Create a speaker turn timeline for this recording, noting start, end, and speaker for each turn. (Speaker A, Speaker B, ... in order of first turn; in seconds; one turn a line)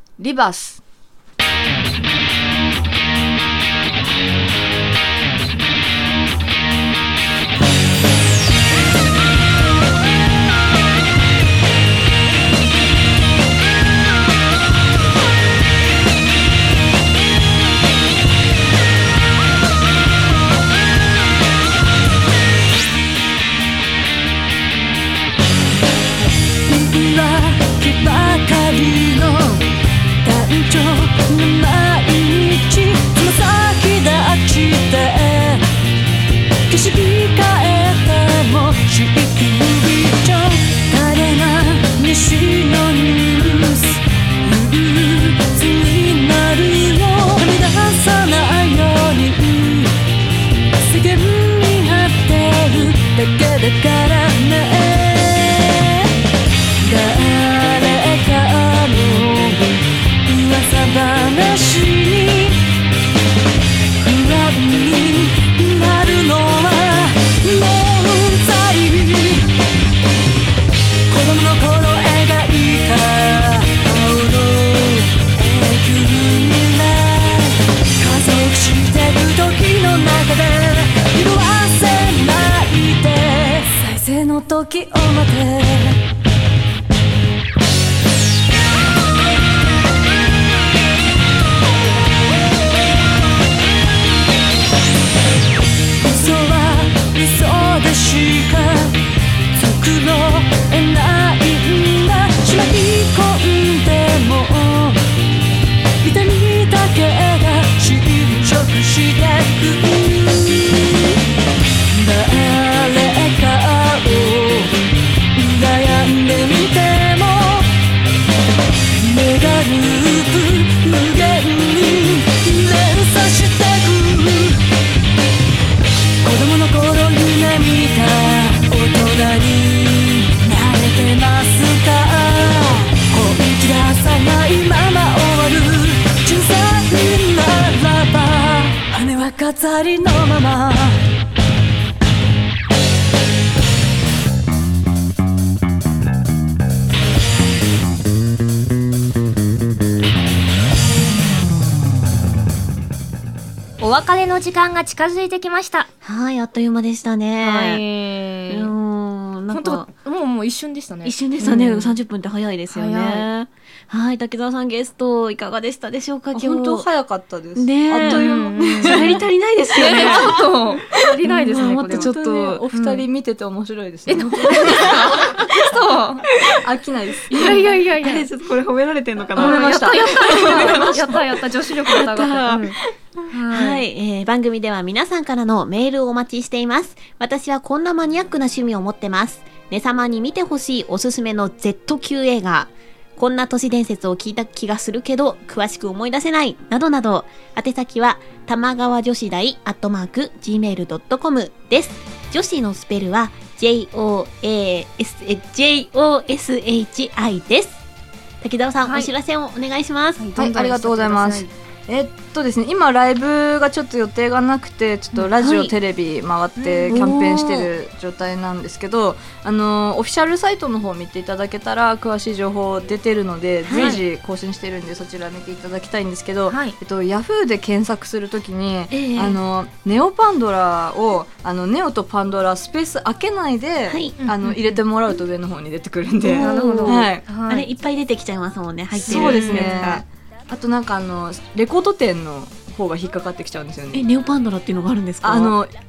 Speaker A: 0.2-0.8
Speaker B: 26.6-29.6
Speaker B: 30.2-35.6
Speaker B: 36.7-50.0
Speaker B: 50.8-56.1
Speaker B: 56.8-59.7
Speaker B: 60.2-62.6
Speaker B: 64.0-69.5
Speaker B: 71.1-86.0
Speaker B: 96.0-99.0
Speaker B: 99.5-105.0
Speaker B: 106.0-111.2
Speaker B: 111.9-114.8
Speaker B: 115.3-117.7
Speaker B: 118.9-124.6
Speaker B: 126.2-141.0
Speaker C: 153.8-155.9
Speaker D: 156.0-157.8
Speaker C: 157.4-158.7
Speaker D: 158.5-159.9
Speaker C: 159.5-162.0
Speaker D: 161.0-166.9
Speaker C: 162.7-163.3
Speaker A: 166.3-169.2
Speaker D: 167.6-173.0
Speaker C: 168.0-169.2
Speaker C: 169.7-172.1
Speaker A: 169.8-170.3
Speaker A: 171.9-175.5
Speaker C: 174.1-176.3
Speaker D: 174.5-175.4
Speaker A: 176.4-177.7
Speaker C: 177.3-178.3
Speaker D: 177.3-181.2
Speaker A: 179.3-181.0
Speaker C: 179.3-183.8
Speaker D: 181.8-182.9
Speaker D: 183.5-207.8
Speaker D: 208.4-210.3
Speaker C: 208.8-209.1
Speaker C: 210.2-211.5
Speaker A: 210.3-237.2
Speaker D: 215.2-215.7
Speaker C: 216.6-216.9
Speaker D: 216.9-217.7
Speaker D: 223.6-224.0
Speaker C: 223.7-224.0
Speaker C: 226.5-226.8
Speaker D: 228.9-229.4
Speaker D: 233.9-234.2
Speaker C: 234.2-234.8
Speaker D: 236.2-240.0
Speaker C: 236.4-237.7
Speaker A: 238.9-244.1
Speaker C: 239.0-239.9
Speaker D: 243.9-245.6
Speaker A: 245.2-245.7